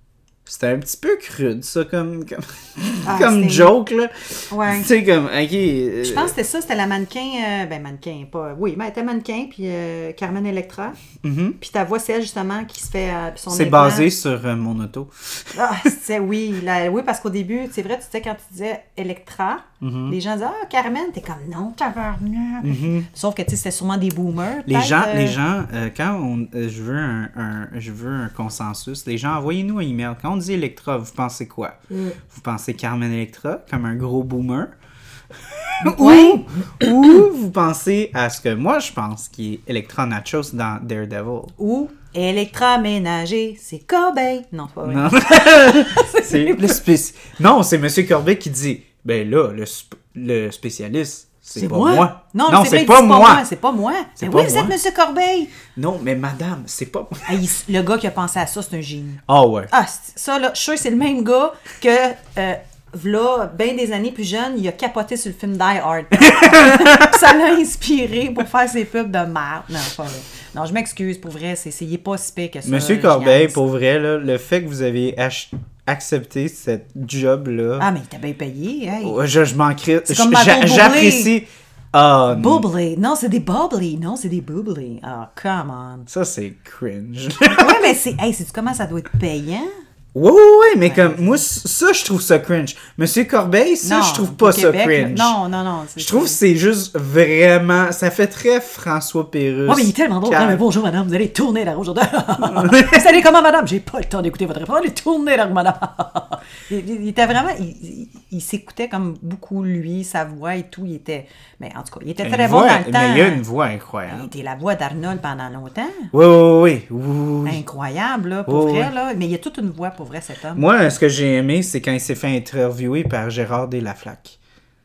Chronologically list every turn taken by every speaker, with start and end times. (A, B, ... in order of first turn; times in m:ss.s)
0:00.4-0:06.3 A
0:03.0-0:03.7 B
0:04.5-0:04.9 B
0:06.0-0:11.0 B
0:11.2-0:11.6 A
0:11.6-0:14.1 B
0:13.5-0:15.5 A
0:15.5-0:25.4 B
0:19.8-0:20.2 A
0:22.6-0:23.1 A
0:24.7-0:34.7 A
0:31.9-0:32.2 B
0:35.5-0:41.5 A
0:35.8-0:36.9 B
0:41.6-0:46.8 B
0:44.8-0:53.4 A
0:51.5-0:55.5 B
0:54.2-0:54.7 A
0:55.7-0:57.3 A
0:57.2-1:13.6 B
0:59.3-0:59.7 A
1:06.2-1:07.3 A
1:12.6-1:17.9 A
1:17.8-1:19.2 B
1:19.0-1:22.6 A
1:20.0-1:21.3 B
1:22.3-1:26.1 B
1:26.1-1:27.9 A
1:27.5-1:29.7 B
1:30.1-1:35.4 A
1:30.8-1:31.4 B
1:33.8-1:36.4 B
1:36.0-1:40.6 A
1:39.6-1:53.4 B
1:42.4-1:43.1 A
1:52.2-1:54.3 A
1:54.1-1:56.1 B
1:56.1-1:57.6 A
1:57.4-2:00.6 B
1:58.5-1:58.9 A
2:00.6-2:04.4 A